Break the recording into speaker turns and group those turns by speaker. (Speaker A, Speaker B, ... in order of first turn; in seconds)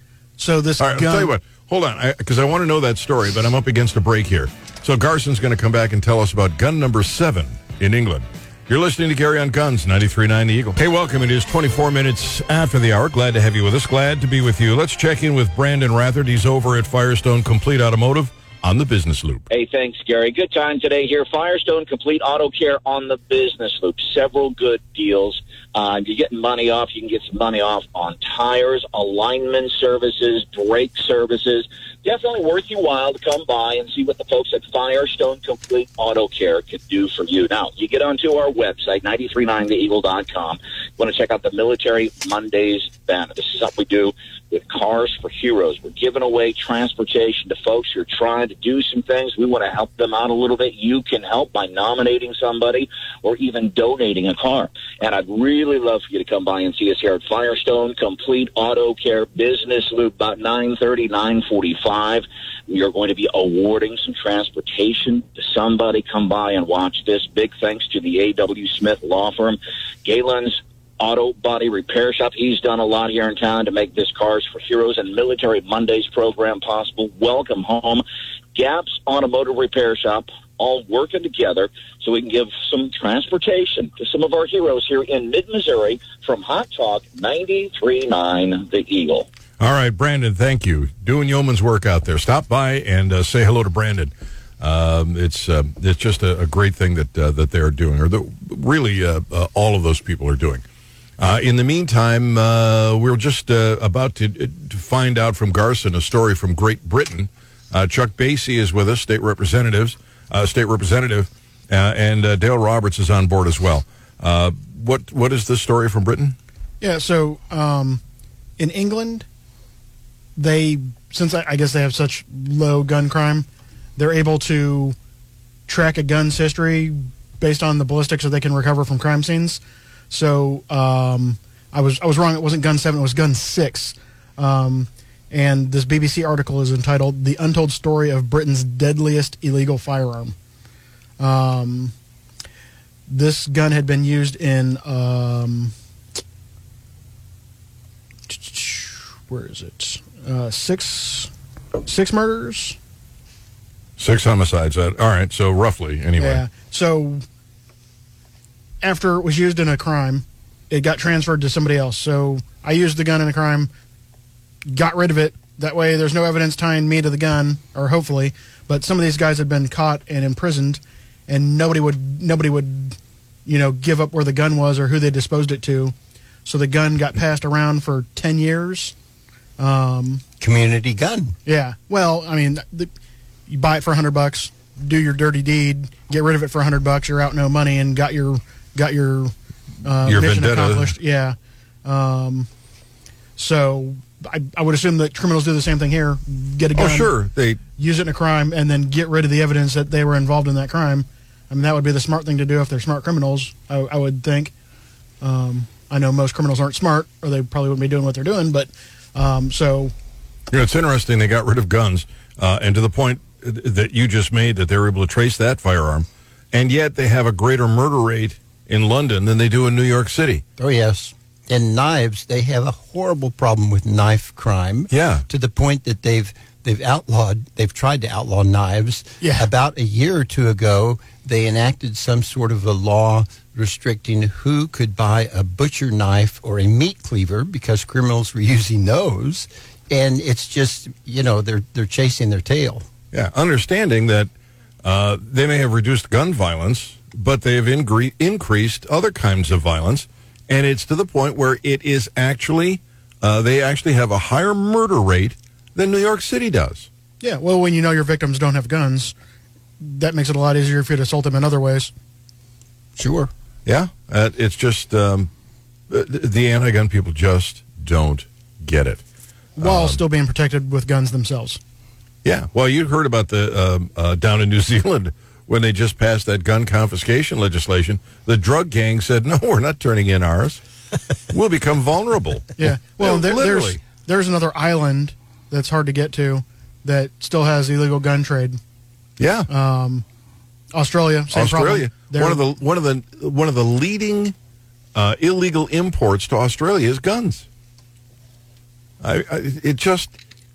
Speaker A: 0.4-1.3, 116.8-118.0, 118.6-119.2, 120.3-125.0, 125.7-140.3, 141.2-141.9, 143.1-145.7, 148.3-151.3, 151.8-152.8, 156.2-157.2, 158.8-163.7, 164.7-175.9, 176.4-178.9, 179.6-180.2, 181.4-182.9, 183.5-192.5, 193.4-197.2, 197.8-204.5, 205.2-209.9, 229.2-229.5, 257.2-259.1, 259.8-261.9, 269.6-271.6, 282.6-288.6, 289.5-290.0, 290.7-292.4
Speaker B: 0.8-19.4, 89.6-100.6, 101.2-116.3, 154.0-156.4, 190.0-190.9, 196.7-197.6, 210.5-220.4, 224.9-225.2, 243.1-244.3, 244.8-256.9, 263.6-265.3, 265.9-269.0, 269.6-270.0, 272.2-280.6, 281.3-283.8, 289.2-289.5, 291.3-294.3, 294.9-297.5, 299.0-300.2
Speaker C: 19.5-78.0, 78.5-89.3
Speaker D: 180.4-181.4, 220.6-242.8, 263.0-263.3